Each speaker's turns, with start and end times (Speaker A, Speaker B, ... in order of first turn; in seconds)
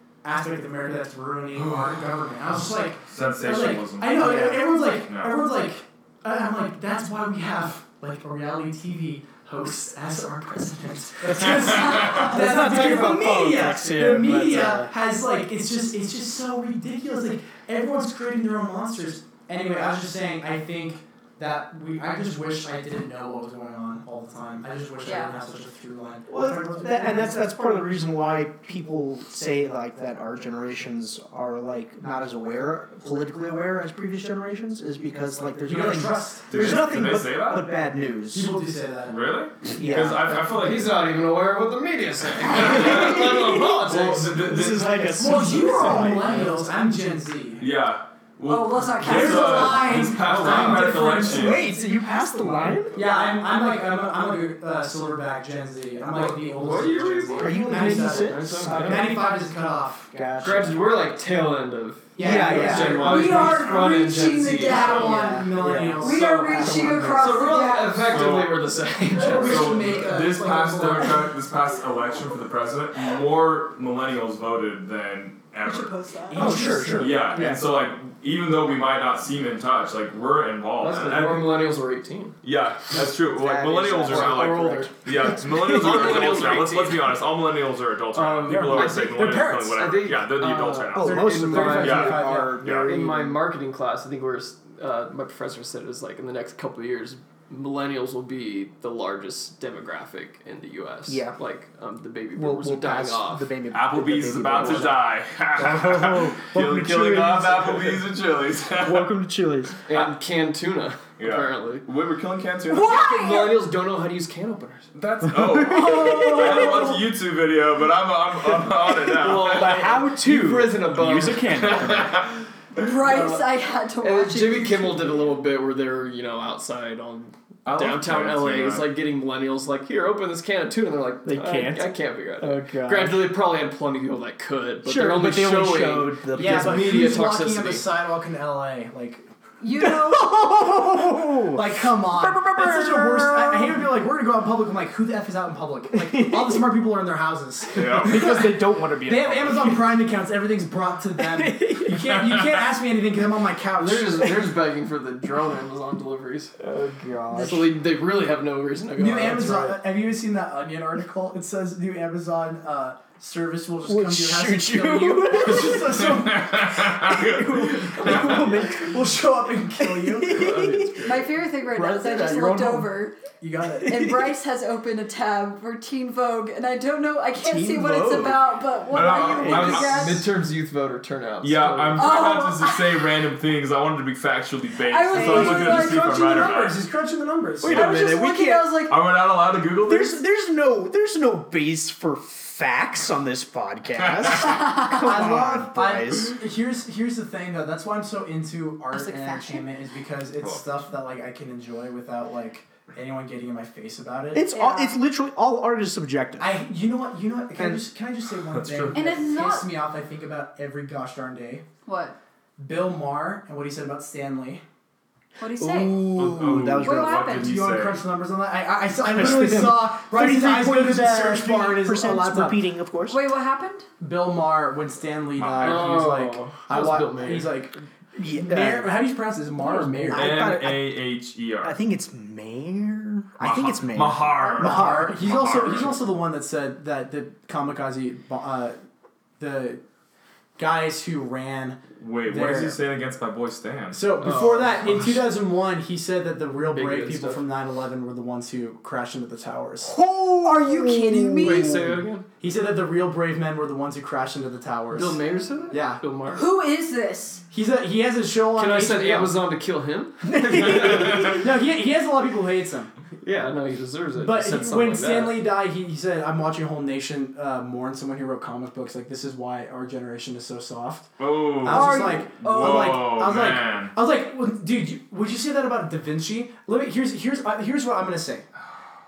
Speaker A: 0.2-27.5, 35.6-36.8, 38.3-39.2, 45.0-47.6, 49.0-51.8, 52.4-60.1, 62.2-63.7, 64.6-67.8, 69.2-71.4, 76.3-77.2, 88.5-89.9, 91.1-92.6, 136.3-139.3, 141.5-154.3, 159.0-166.8, 167.4-170.5, 173.4-174.0, 185.1-187.9, 194.8-204.5, 206.4-211.7, 212.6-214.6, 217.3-222.6, 224.0-230.4, 234.6-238.8, 239.4-239.8, 240.6-242.8, 243.9-250.0, 252.4-255.2, 255.7-256.0, 257.5-259.4, 260.4-262.9, 264.2-278.5
Speaker B: 1.5-5.4, 36.5-37.7, 39.1-41.0, 42.6-43.3, 43.8-46.1, 47.6-51.7, 67.2-68.6, 69.2-76.0, 77.0-81.5, 82.4-92.9, 103.7-109.1, 111.2-112.9, 115.0-119.9, 121.5-122.9, 127.7-128.9, 147.7-148.3, 152.2-152.6, 166.0-168.5, 170.3-171.2, 178.9-180.2, 181.4-186.8, 187.6-188.0, 188.8-190.2, 208.5-209.0, 216.1-218.0, 225.4-225.9, 230.1-231.8, 233.4-236.1, 242.0-244.2, 271.2-273.9
Speaker C: 11.4-14.9, 26.3-38.5, 39.7-40.4, 42.5-46.6, 51.2-53.0, 57.4-59.1, 60.1-60.8, 62.2-63.5, 65.0-67.2, 76.3-77.6, 83.4-84.9, 85.5-86.1, 90.9-93.4, 101.1-101.4, 102.3-105.0, 105.6-108.0, 108.8-109.8, 115.3-116.8, 119.2-122.1, 131.2-133.3, 134.8-137.3, 139.8-143.9, 145.9-146.6, 147.9-150.0, 151.2-152.0, 156.6-157.7, 163.8-166.1, 167.0-169.2, 169.8-171.0, 171.8-172.8, 177.4-178.4, 179.3-179.8, 185.2-185.6, 187.6-188.7, 189.8-196.4, 204.3-206.5, 207.6-207.9, 215.6-217.5, 219.1-223.2, 228.2-228.9, 229.6-230.9, 231.6-235.5, 249.8-251.9, 260.4-261.2
Speaker D: 25.0-25.3, 48.5-50.1, 63.0-65.2, 66.0-68.0, 75.7-76.4, 112.7-113.6, 116.1-116.9, 122.8-125.2, 139.6-140.3, 171.0-173.2, 173.8-180.2, 182.0-183.1, 184.9-186.5, 187.7-189.0, 194.4-194.9, 198.9-199.7, 204.5-205.0, 208.9-209.7, 211.8-212.2, 215.4-216.0, 216.8-217.5, 223.1-223.9, 250.4-251.8, 256.3-257.4, 271.7-273.0
Speaker E: 40.0-44.5, 50.0-51.1, 56.1-59.1, 60.4-65.4, 67.1-69.9, 76.4-77.3, 80.8-82.4, 83.8-87.2, 88.1-103.5, 104.5-104.9, 109.9-111.8, 112.7-114.9, 119.1-122.0, 123.0-123.5, 124.0-137.9, 153.8-156.5, 157.3-159.8, 179.4-182.3, 225.6-227.5, 244.2-245.2, 246.7-247.4, 251.4-252.3, 254.9-256.5, 258.6-261.4, 263.2-265.4